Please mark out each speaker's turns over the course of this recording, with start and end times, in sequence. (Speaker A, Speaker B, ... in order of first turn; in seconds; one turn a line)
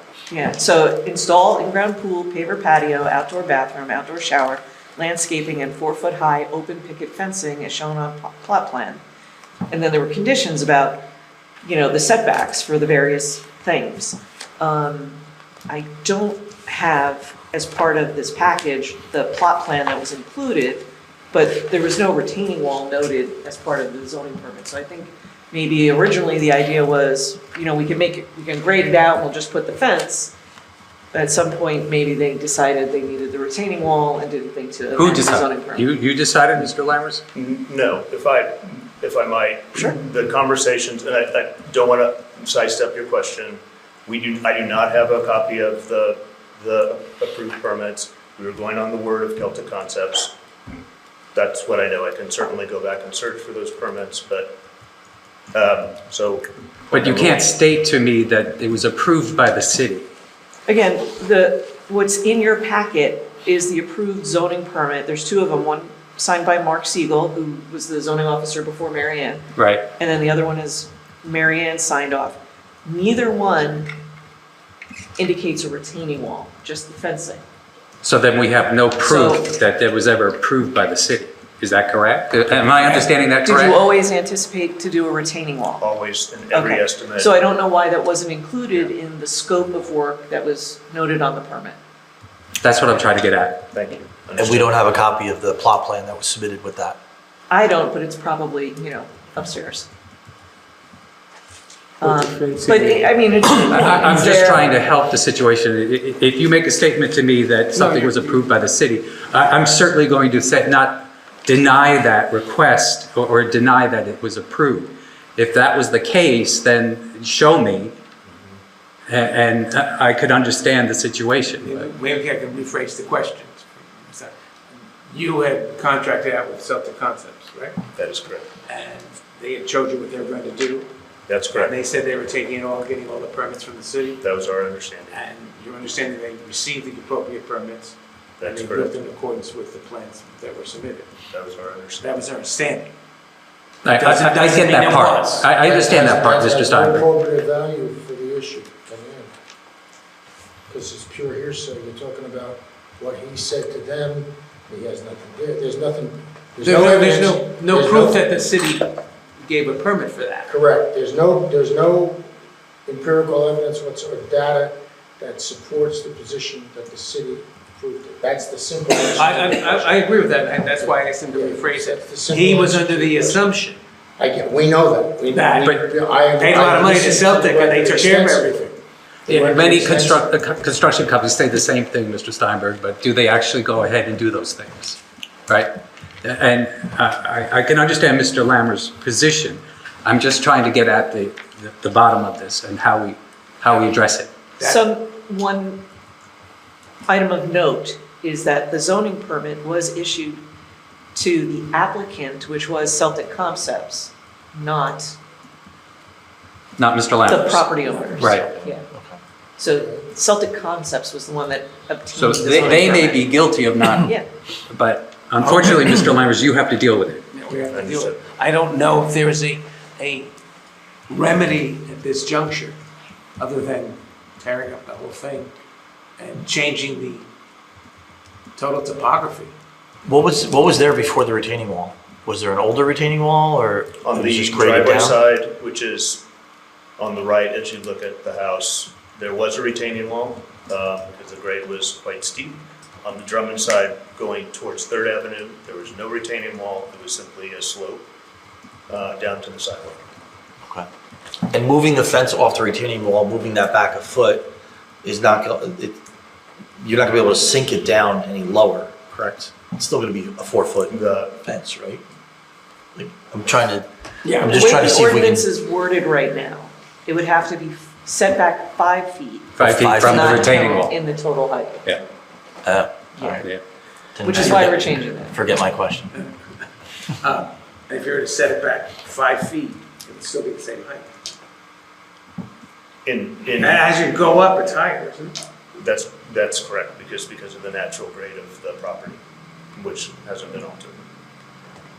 Speaker A: 0.3-9.0
Speaker A: 9.7-11.1
Speaker A: 11.6-30.4
Speaker A: 31.1-35.9
Speaker B: 35.0-37.2
Speaker C: 37.3-50.3
Speaker C: 51.3-54.6
Speaker C: 55.5-57.5
Speaker B: 56.9-60.1
Speaker A: 60.7-73.9
Speaker B: 69.5-69.9
Speaker A: 75.2-77.4
Speaker B: 78.0-83.8
Speaker A: 79.0-79.5
Speaker A: 82.8-85.8
Speaker C: 85.8-87.3
Speaker A: 86.5-91.8
Speaker B: 92.6-93.7
Speaker C: 93.7-94.8
Speaker D: 94.4-97.0
Speaker A: 97.5-99.9
Speaker A: 102.0-104.7
Speaker E: 102.0-103.1
Speaker B: 103.7-118.0
Speaker E: 107.8-108.5
Speaker B: 119.1-121.9
Speaker E: 121.6-127.8
Speaker C: 128.0-128.5
Speaker E: 128.7-130.9
Speaker C: 131.3-131.8
Speaker E: 131.5-134.2
Speaker C: 134.2-135.2
Speaker E: 135.1-141.1
Speaker C: 138.4-139.0
Speaker C: 141.3-142.0
Speaker E: 142.0-142.9
Speaker B: 143.8-147.1
Speaker E: 143.9-145.5
Speaker F: 145.6-149.3
Speaker F: 150.7-158.2
Speaker E: 156.6-160.6
Speaker F: 160.5-162.3
Speaker F: 162.9-170.0
Speaker E: 169.1-173.8
Speaker F: 170.7-173.5
Speaker F: 174.2-178.7
Speaker E: 175.3-178.8
Speaker F: 179.3-180.3
Speaker B: 179.3-194.3
Speaker A: 194.6-195.8
Speaker A: 197.1-200.4
Speaker A: 201.2-205.2
Speaker B: 206.8-208.6
Speaker A: 207.3-208.9
Speaker E: 208.0-208.3
Speaker D: 208.9-209.2
Speaker A: 209.6-213.3
Speaker F: 209.7-210.1
Speaker B: 212.1-217.2
Speaker A: 214.0-214.3
Speaker E: 215.4-216.0
Speaker E: 217.3-220.3
Speaker C: 217.7-218.2
Speaker E: 221.1-222.8
Speaker E: 223.4-225.5
Speaker E: 226.2-227.3
Speaker E: 228.6-229.5
Speaker D: 230.1-235.2
Speaker C: 234.0-236.2
Speaker C: 237.0-248.0
Speaker C: 248.9-250.0
Speaker D: 251.5-254.5
Speaker D: 255.0-256.0
Speaker D: 256.8-260.9
Speaker C: 260.9-261.4
Speaker D: 261.5-262.0
Speaker D: 263.0-263.9
Speaker E: 264.2-264.6
Speaker D: 264.4-265.4
Speaker A: 264.5-272.0
Speaker B: 269.6-270.9
Speaker D: 269.6-270.6
Speaker D: 272.6-273.5
Speaker A: 273.2-273.5
Speaker D: 274.1-276.1
Speaker A: 274.2-275.4
Speaker E: 276.1-276.7
Speaker E: 277.2-281.1
Speaker C: 283.0-283.8
Speaker E: 283.6-285.4
Speaker C: 285.8-289.2
Speaker C: 289.8-291.0